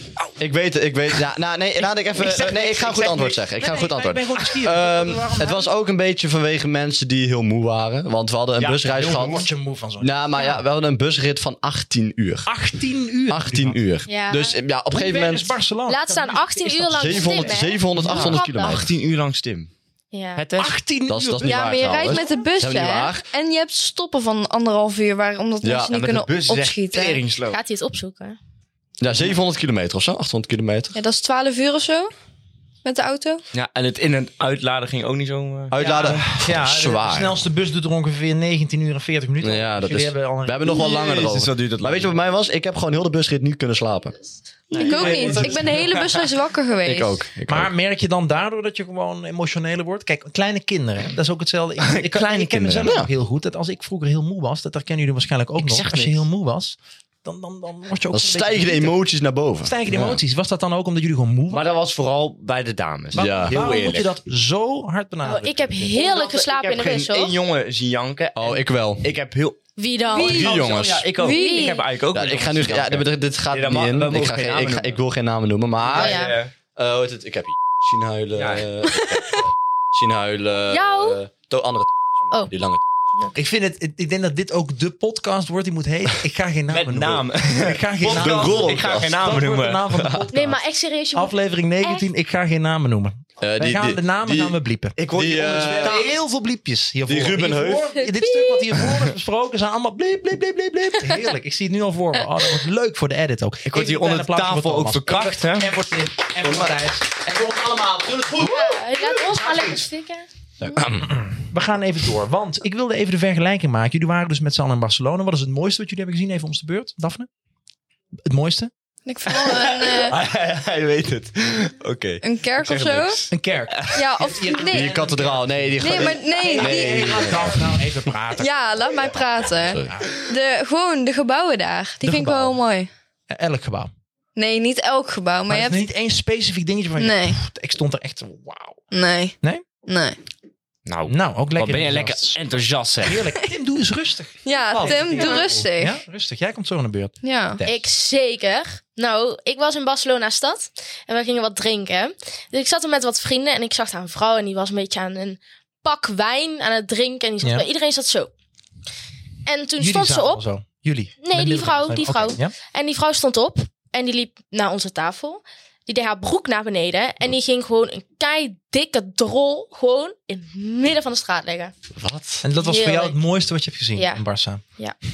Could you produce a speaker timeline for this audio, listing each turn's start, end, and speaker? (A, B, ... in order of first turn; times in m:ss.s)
0:00.4-0:12.5 A
0:02.2-0:05.7 B
0:02.9-0:03.2 C
0:08.6-0:10.1 B
0:12.5-0:13.8 B
0:13.3-0:15.5 A
0:14.1-0:14.6 D
0:14.9-0:17.6 B
0:15.9-0:18.8 D
0:16.9-0:18.9 A
0:18.0-0:19.7 C
0:20.1-0:20.4 D
0:20.4-0:20.8 C
0:20.6-0:22.3 B
0:21.1-0:23.2 A
0:21.4-0:27.2 E
0:25.6-0:25.9 A
0:25.9-0:27.6 C
0:27.5-0:28.4 D
0:29.0-0:31.0 A
0:31.0-0:32.1 E
0:32.8-0:33.4 E
0:33.5-0:36.2 C
0:35.7-0:37.4 A
0:35.8-0:40.8 B
0:39.4-0:44.2 A
0:40.7-0:42.1 C
0:44.7-0:46.2 C
0:44.7-0:46.0 B
0:44.7-0:47.2 E
0:46.8-0:47.7 A
0:47.5-0:59.0 B
0:51.8-0:52.9 C
0:52.6-0:53.1 A
0:55.6-0:56.2 C
0:58.1-1:00.2 A
0:59.6-1:01.7 B
1:01.5-1:04.1 C
1:03.1-1:03.8 A
1:03.1-1:05.9 B
1:05.2-1:07.4 D
1:05.9-1:09.6 C
1:08.4-1:09.1 A
1:09.8-1:10.5 D
1:10.1-1:10.6 E
1:10.1-1:15.0 C
1:10.3-1:11.1 A
1:11.1-1:11.8 E
1:11.3-1:11.8 D
1:12.1-1:16.2 A
1:15.9-1:16.5 C
1:15.9-1:16.4 D
1:16.8-1:22.8 A
1:18.4-1:18.7 C
1:20.7-1:21.2 D
1:23.4-1:30.6 B
1:26.7-1:30.2 C
1:28.1-1:29.2 A
1:30.3-1:32.1 D
1:31.2-1:49.8 B
1:33.4-1:34.6 A
1:35.0-1:36.1 C
1:35.1-1:36.0 A
1:37.1-1:37.9 A
1:38.0-1:38.7 D
1:43.7-1:45.7 C
1:46.4-1:46.7 A
1:48.4-1:50.2 D
1:50.6-1:57.3 B
1:50.7-1:51.1 A
1:58.3-1:58.7 B
1:59.1-2:00.2 E
1:59.3-2:03.9 C
2:02.2-2:03.2 E
2:03.3-2:08.9 B
2:03.9-2:05.0 E
2:04.7-2:07.6 A
2:05.8-2:07.4 E
2:08.4-2:12.9 E
2:09.7-2:09.9 A
2:09.9-2:10.2 B
2:12.0-2:12.6 B
2:13.3-2:13.9 B
2:14.4-2:15.8 E
2:15.5-2:18.8 B
2:17.0-2:17.4 E
2:18.9-2:20.2 E
2:20.9-2:23.3 C
2:21.1-2:22.4 B
2:23.0-2:27.8 B
2:24.4-2:26.0 E
2:24.8-2:25.5 C
2:27.2-2:27.6 E
2:27.6-2:38.3 D
2:39.5-2:40.4 D
2:39.8-2:42.5 B
2:41.2-2:51.7 D
2:52.0-2:52.5 A
2:52.4-2:54.6 B
2:52.6-2:53.2 D
2:54.0-2:54.2 D